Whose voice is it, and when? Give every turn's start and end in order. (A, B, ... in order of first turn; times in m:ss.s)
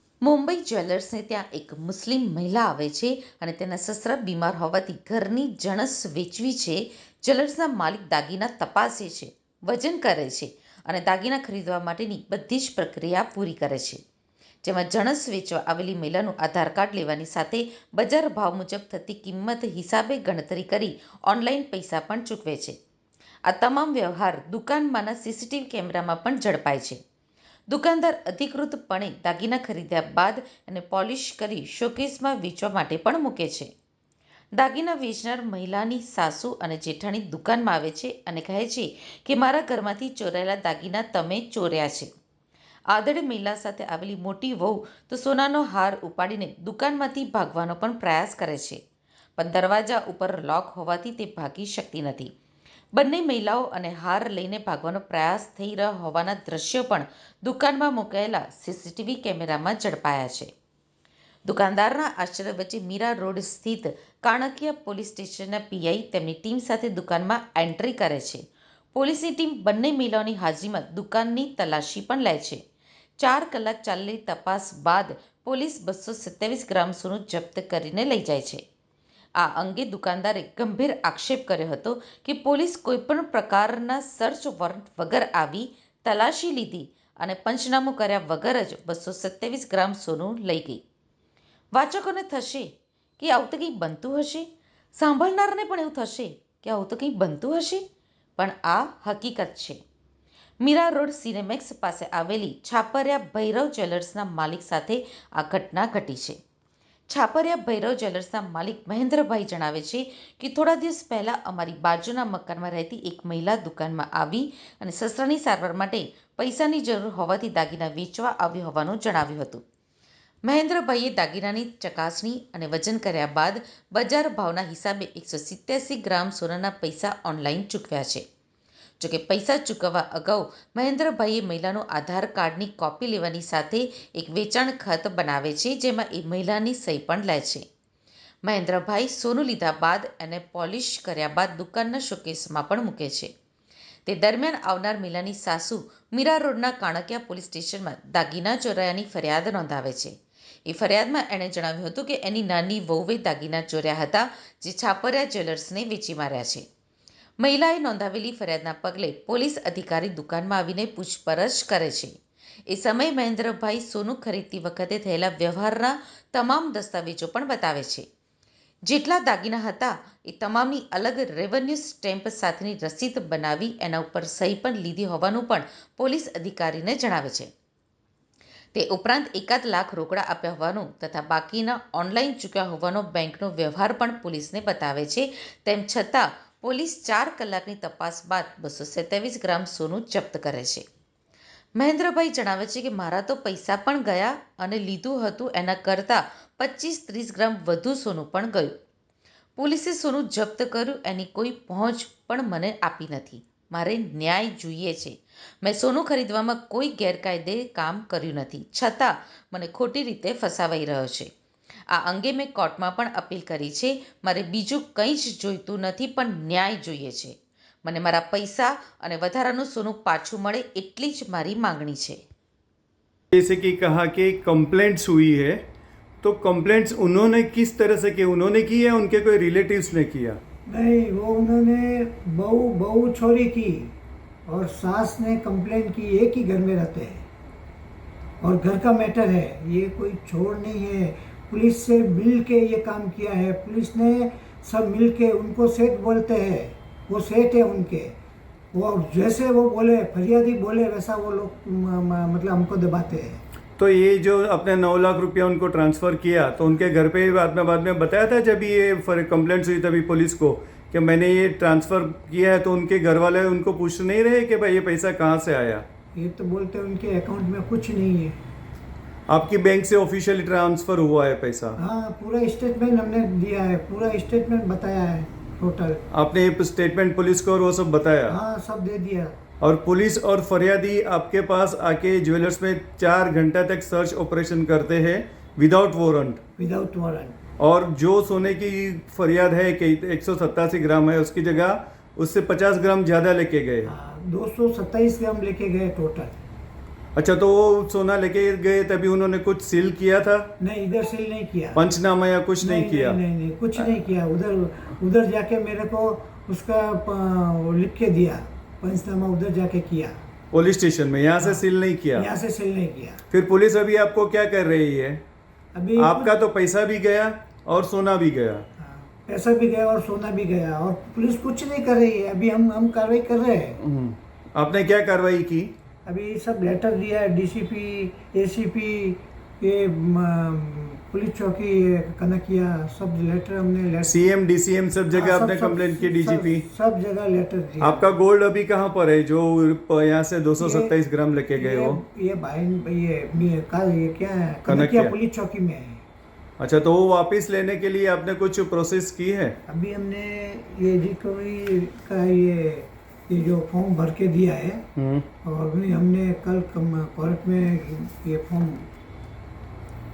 0:00.2-0:14.0 A
0:14.6-0:22.8 A
0:23.4-0:27.0 A
0:27.7-0:33.7 A
0:34.5-0:42.1 A
0:42.9-0:48.8 A
0:49.4-0:52.3 A
0:52.9-1:00.5 A
1:01.4-1:12.6 A
1:13.2-1:18.6 A
1:19.4-1:30.8 A
1:31.7-1:37.8 A
1:38.4-1:39.8 A
1:40.6-1:46.4 A
1:47.1-1:59.6 A
2:00.4-2:08.2 A
2:09.0-2:17.6 A
2:18.4-2:23.3 A
2:24.0-2:36.6 A
2:37.4-2:42.1 A
2:42.7-2:48.1 A
2:48.8-2:57.5 A
2:58.7-3:10.8 A
3:11.8-3:18.8 A
3:19.6-3:31.3 A
3:31.9-3:42.2 A
3:43.3-3:45.6 B
3:46.2-3:50.4 B
3:50.7-3:53.9 C
3:54.5-3:57.2 C
3:58.4-4:08.1 C
4:08.7-4:13.4 C
4:13.8-4:25.8 B
4:26.2-4:28.4 C
4:29.3-4:31.8 B
4:31.8-4:36.0 C
4:36.1-4:38.4 B
4:38.3-4:39.3 C
4:39.6-4:46.4 B
4:46.6-4:47.4 C
4:47.6-4:53.9 B
4:53.8-4:56.4 C
4:57.2-5:00.5 B
5:00.6-5:01.8 C
5:01.7-5:03.2 B
5:02.6-5:10.2 C
5:10.5-5:12.3 B
5:12.2-5:13.2 C
5:13.3-5:15.2 B
5:15.7-5:16.3 C
5:16.0-5:18.6 B
5:18.8-5:23.8 C
5:23.8-5:25.7 B
5:26.0-5:34.2 C
5:34.0-5:36.6 B
5:35.1-5:38.1 C
5:37.8-5:42.0 B
5:40.6-5:40.9 C
5:41.6-5:46.0 C
5:44.6-5:45.1 B
5:46.6-5:49.6 B
5:49.7-5:54.8 C
5:55.0-5:55.3 B
5:55.4-5:58.8 C